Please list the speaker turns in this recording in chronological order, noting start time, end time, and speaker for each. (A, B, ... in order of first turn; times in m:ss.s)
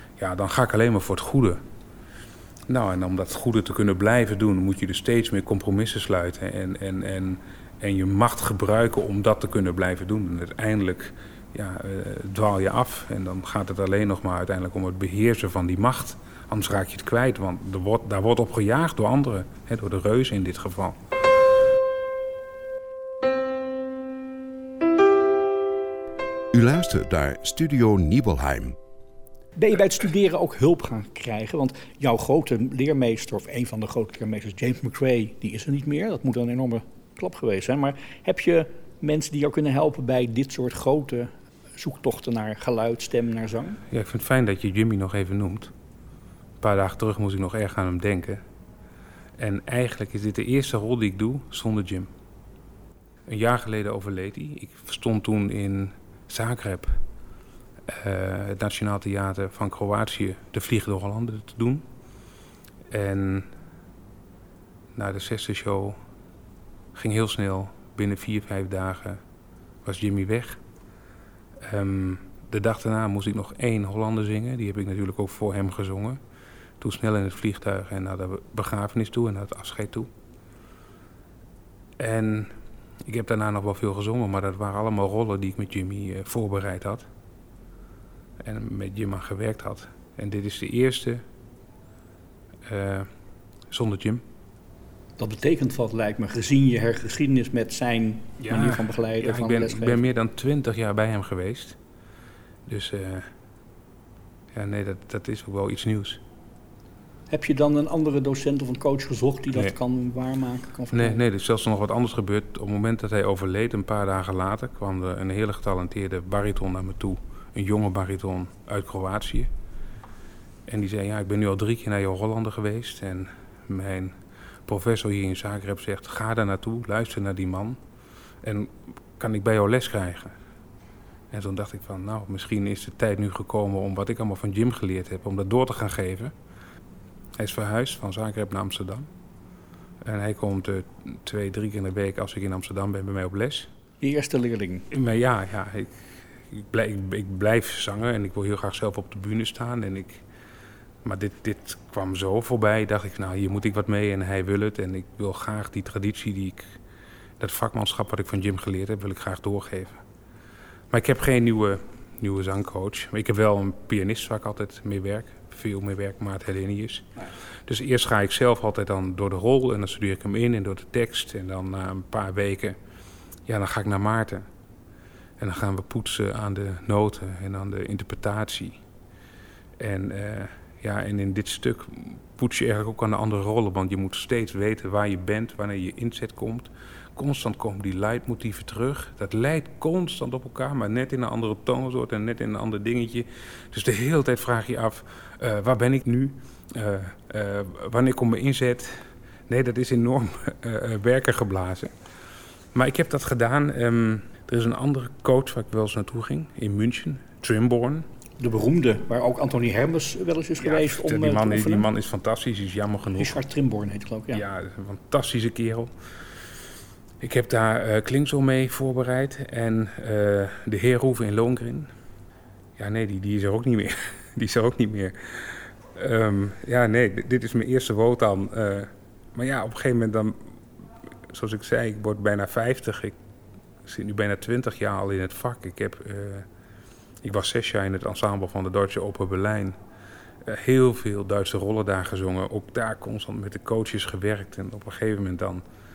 0:00.2-0:01.6 A
0:02.7-0:21.0 A
0:26.5-0:28.8 B
0:29.6-0:43.8 C
0:43.9-0:45.7 A
0:46.6-0:48.4 A
0:49.4-0:52.1 A
0:53.3-0:57.0 A
0:57.9-1:01.8 A
1:02.9-1:03.5 A
1:04.9-1:06.0 A
1:06.9-1:09.2 A
1:09.8-1:10.6 A
1:11.6-1:16.2 A
1:16.8-1:20.1 A
1:22.0-1:22.5 A
1:23.0-1:27.1 A
1:28.4-1:31.2 A
1:32.6-1:33.1 A
1:33.7-1:34.2 A
1:35.2-1:40.0 C
1:38.4-1:41.8 A
1:42.7-1:43.3 A
1:44.5-1:46.2 A
1:47.3-1:51.2 C
1:50.9-1:59.5 A
2:00.7-2:04.1 A
2:04.6-2:07.8 A
2:08.4-2:10.3 A
2:11.3-2:16.3 A
2:17.4-2:19.1 A
2:20.0-2:23.7 A
2:24.0-2:24.9 C
2:24.9-2:25.9 A
2:26.5-2:30.2 A
2:31.0-2:36.7 A
2:37.4-2:40.0 A
2:40.9-2:47.1 A
2:47.7-2:52.8 A
2:53.5-2:54.4 A
2:55.4-2:58.8 A
2:59.8-3:21.9 A
3:22.7-3:28.1 A
3:28.4-3:31.8 C
3:30.6-3:33.4 A
3:33.2-3:34.4 C
3:34.3-3:35.9 A
3:37.2-3:41.9 A
3:42.8-3:50.5 A
3:51.3-3:53.1 A
3:53.8-3:56.4 A
3:57.2-3:59.8 A
4:00.4-4:05.6 A